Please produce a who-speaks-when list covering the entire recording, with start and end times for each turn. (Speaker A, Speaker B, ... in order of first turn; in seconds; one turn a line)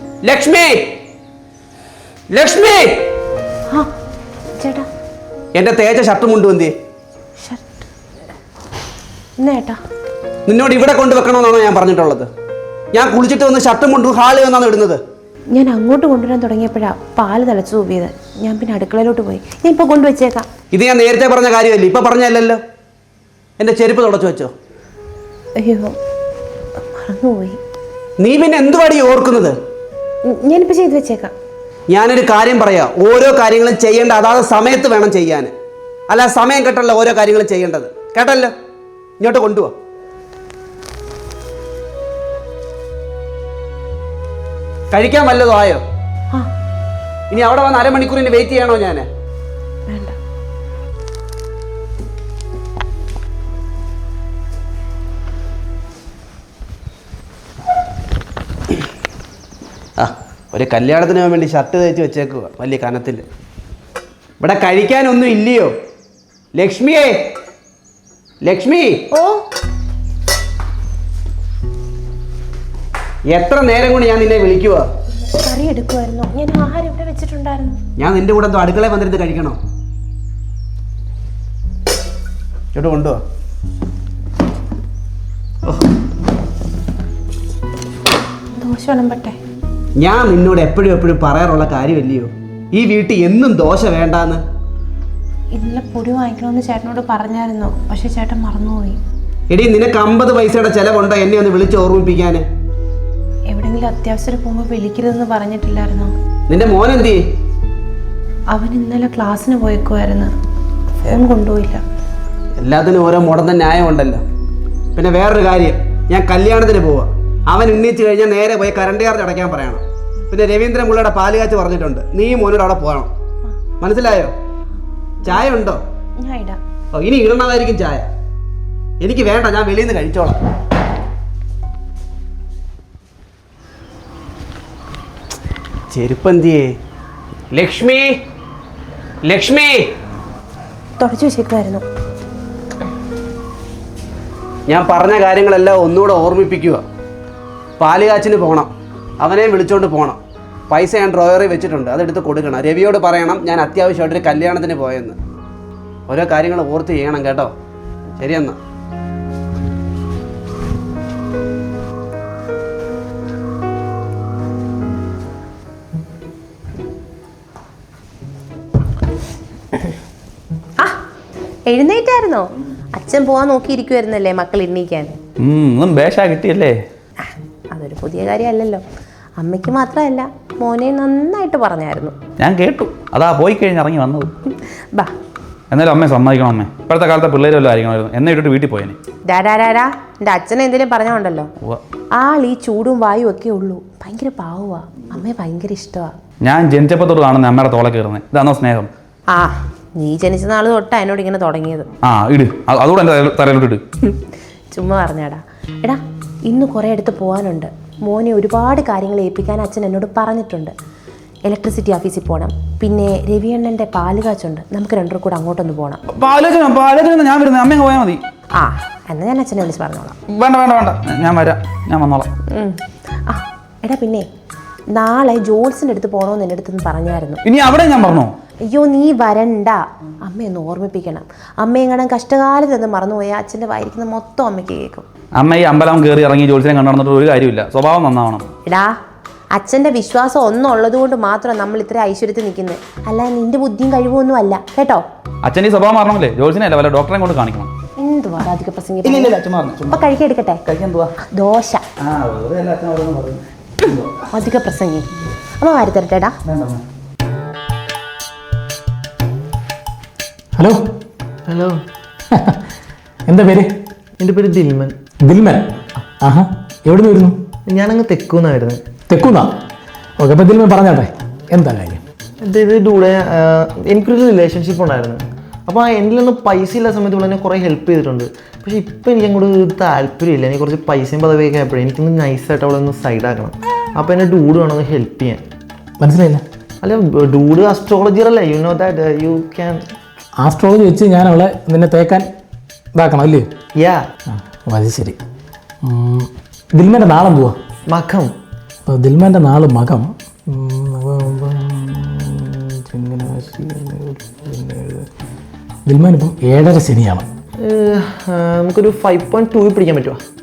Speaker A: 0.2-0.9
Speaker A: 2.3-3.0
Speaker B: 4.6-4.9
Speaker A: 5.5-6.7
Speaker B: 7.4-7.9
Speaker B: 9.4-9.8
Speaker A: 10.5-12.3
Speaker A: 12.9-15.0
Speaker B: 15.5-20.5
Speaker A: 20.7-22.6
Speaker A: 23.6-24.5
Speaker B: 25.6-26.0
Speaker B: 26.8-27.6
Speaker A: 28.2-29.6
Speaker B: 30.3-31.3
Speaker A: 31.9-35.5
Speaker A: 36.1-38.5
Speaker A: 39.2-39.7
Speaker A: 44.9-45.8
Speaker A: 47.3-49.1
Speaker B: 49.9-50.2
Speaker A: 60.0-63.2
Speaker A: 64.4-65.7
Speaker A: 66.5-67.3
Speaker A: 68.4-69.1
Speaker B: 69.1-69.5
Speaker A: 73.3-74.9
Speaker B: 75.2-77.8
Speaker A: 78.0-79.6
Speaker A: 82.7-83.2
Speaker B: 88.5-89.4
Speaker A: 90.0-94.4
Speaker B: 95.5-99.0
Speaker A: 99.5-102.5
Speaker B: 103.5-106.1
Speaker A: 106.5-107.2
Speaker B: 108.5-110.3
Speaker B: 111.1-111.8
Speaker A: 112.6-114.2
Speaker A: 115.0-123.1
Speaker A: 123.8-124.3
Speaker A: 125.2-125.8
Speaker B: 126.2-126.6
Speaker A: 126.9-128.1
Speaker A: 129.0-130.4
Speaker A: 135.9-136.8
Speaker A: 137.5-138.2
Speaker A: 139.2-139.9
Speaker B: 141.0-141.8
Speaker A: 144.7-146.8
Speaker A: 147.8-148.7
Speaker A: 149.2-150.2
Speaker A: 150.7-155.2
Speaker A: 156.1-157.5
Speaker A: 158.2-158.6
Speaker B: 171.7-175.2
Speaker C: 175.4-176.8
Speaker B: 177.2-178.8
Speaker B: 179.4-182.2
Speaker C: 182.4-184.3
Speaker C: 185.7-189.0
Speaker B: 189.3-191.5
Speaker B: 192.2-196.2
Speaker C: 196.4-198.9
Speaker B: 199.3-201.9
Speaker C: 202.0-203.8
Speaker B: 204.7-210.7
Speaker B: 211.5-216.0
Speaker C: 216.1-218.2
Speaker B: 218.6-220.2
Speaker C: 220.3-222.3
Speaker B: 222.5-224.3
Speaker B: 224.9-227.4
Speaker C: 227.4-228.3
Speaker B: 228.7-235.1
Speaker C: 235.4-238.5
Speaker B: 238.7-239.0
Speaker B: 239.6-245.1
Speaker C: 245.4-247.7
Speaker B: 248.0-249.4
Speaker C: 249.0-250.1
Speaker B: 249.9-250.6
Speaker C: 250.7-251.1
Speaker B: 251.3-251.8
Speaker C: 252.0-254.3
Speaker B: 254.3-256.4
Speaker C: 256.5-256.8
Speaker D: 260.6-260.8
Speaker E: 261.5-261.8
Speaker D: 262.3-262.6
Speaker D: 263.3-263.7
Speaker E: 264.2-265.0
Speaker D: 265.2-265.7
Speaker D: 266.2-267.4
Speaker E: 267.7-268.8
Speaker D: 269.1-269.6
Speaker D: 270.2-272.0
Speaker E: 272.4-285.4
Speaker D: 286.0-286.4
Speaker E: 286.8-289.8
Speaker D: 290.4-292.3
Speaker D: 292.9-293.5
Speaker E: 293.8-294.1
Speaker D: 294.3-295.2
Speaker D: 295.8-297.6
Speaker E: 297.9-298.3
Speaker D: 298.9-305.1
Speaker D: 305.9-307.3
Speaker E: 307.6-310.2